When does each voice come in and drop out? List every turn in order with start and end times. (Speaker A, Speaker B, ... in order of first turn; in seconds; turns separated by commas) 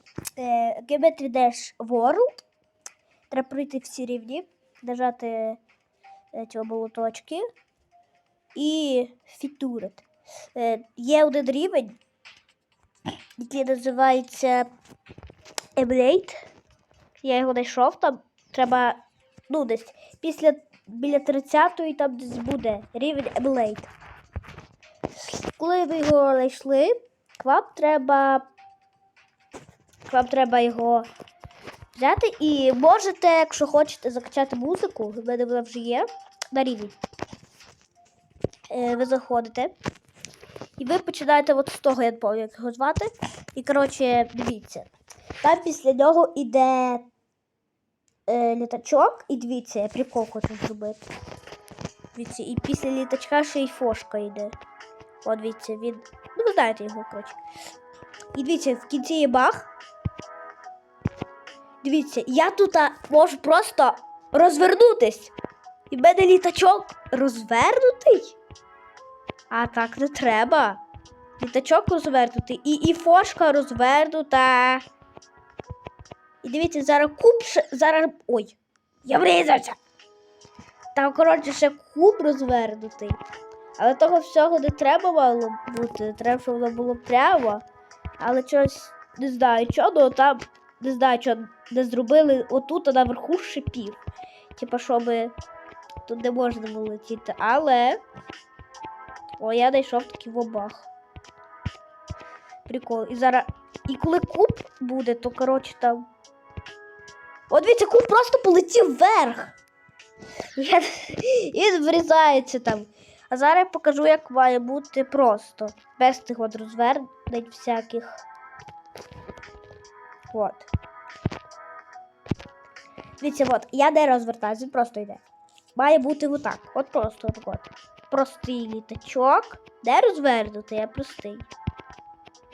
Speaker A: 0.4-2.4, Speaker A: 3.3-5.6, Speaker A: 6.3-7.4, Speaker A: 8.5-12.0, Speaker A: 13.4-14.7, Speaker A: 15.8-16.4, Speaker A: 17.2-23.9, Speaker A: 25.3-28.5, Speaker A: 30.1-31.1, Speaker A: 31.9-37.0, Speaker A: 38.7-39.7, Speaker A: 40.8-44.9, Speaker A: 45.4-47.1, Speaker A: 48.3-51.0, Speaker A: 52.1-54.5, Speaker A: 55.2-57.4, Speaker A: 58.3-59.7, Speaker A: 61.8-65.3, Speaker A: 65.9-68.4, Speaker A: 69.5-70.8, Speaker A: 71.4-74.8, Speaker A: 76.4-79.8, Speaker A: 80.9-83.2, Speaker A: 83.8-87.6, Speaker A: 88.2-94.0, Speaker A: 94.5-95.3, Speaker A: 96.0-98.0, Speaker A: 99.4-100.9, Speaker A: 102.7-106.0, Speaker A: 107.5-109.5, Speaker A: 110.5-118.2, Speaker A: 120.3-120.7, Speaker A: 123.2-125.2, Speaker A: 125.7-131.5